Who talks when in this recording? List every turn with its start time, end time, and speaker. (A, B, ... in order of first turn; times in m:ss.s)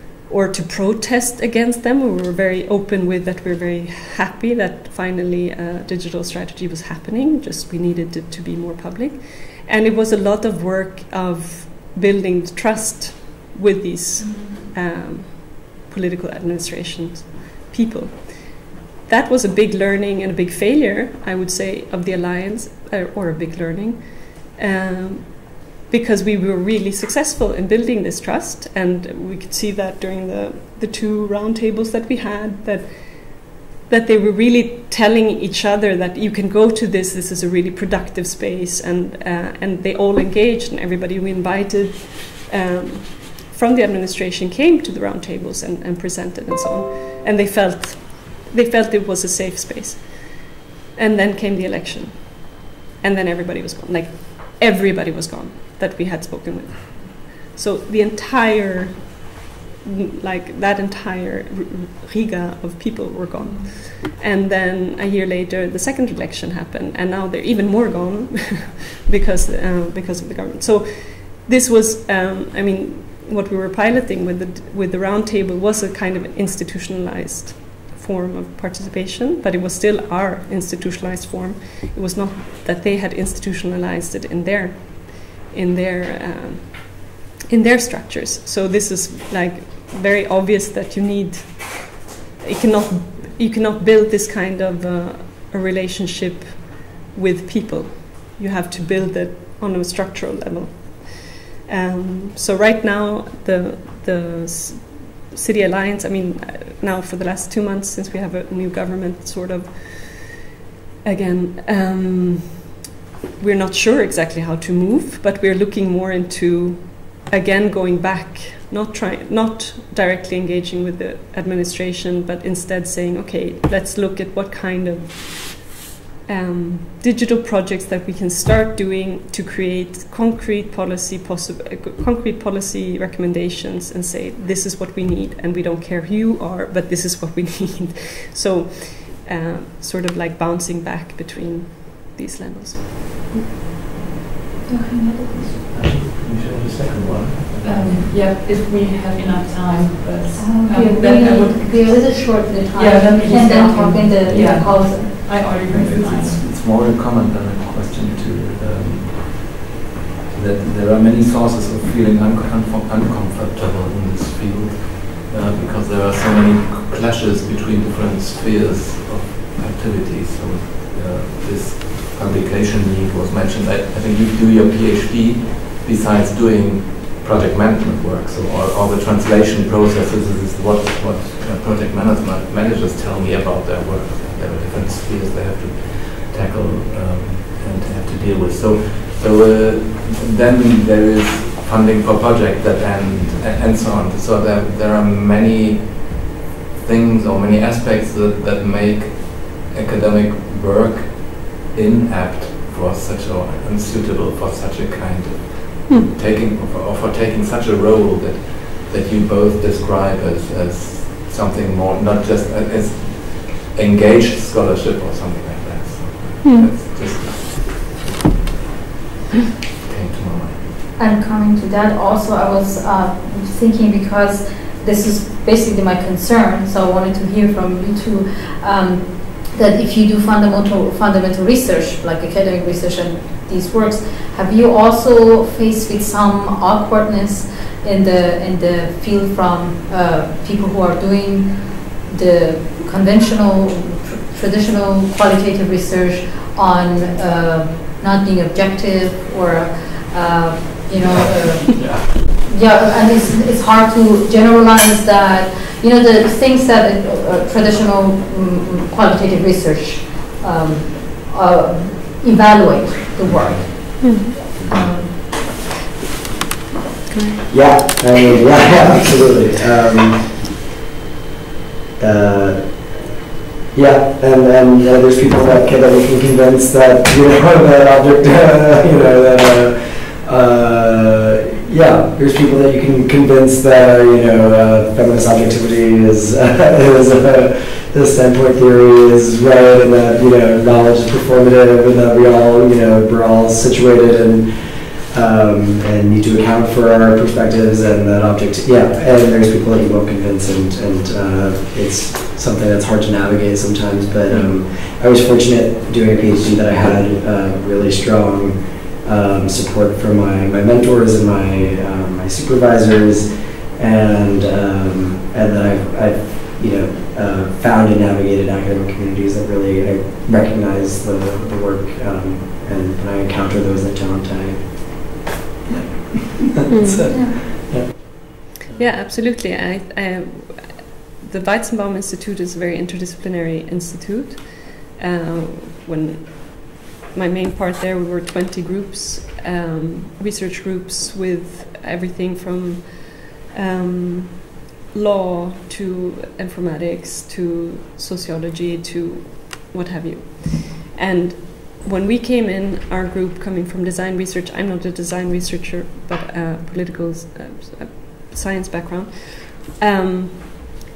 0:00.3-0:59.2 A
0:14.2-0:14.7 B
0:59.8-1:50.4 A
1:03.4-1:03.8 B
1:51.0-1:52.6 A
1:53.4-2:05.7 A
2:06.2-2:22.8 A
2:24.7-2:25.5 C
2:25.7-2:28.1 D
2:27.6-2:36.4 B
2:30.3-2:35.2 C
2:34.2-2:34.6 D
2:35.2-2:39.6 D
2:40.3-3:37.9 D
3:36.4-3:36.7 A
3:39.8-3:40.8 D
3:41.0-4:25.2 C
4:11.7-4:12.3 D
4:23.2-4:24.0 D
4:24.0-4:24.3 A
4:27.1-4:27.5 A
4:27.5-4:30.4 E
4:32.0-4:33.1 E
4:33.7-5:25.1 E
5:25.7-5:27.9 E
5:26.7-5:27.0 A
5:27.0-5:27.4 C
5:28.7-6:00.6 A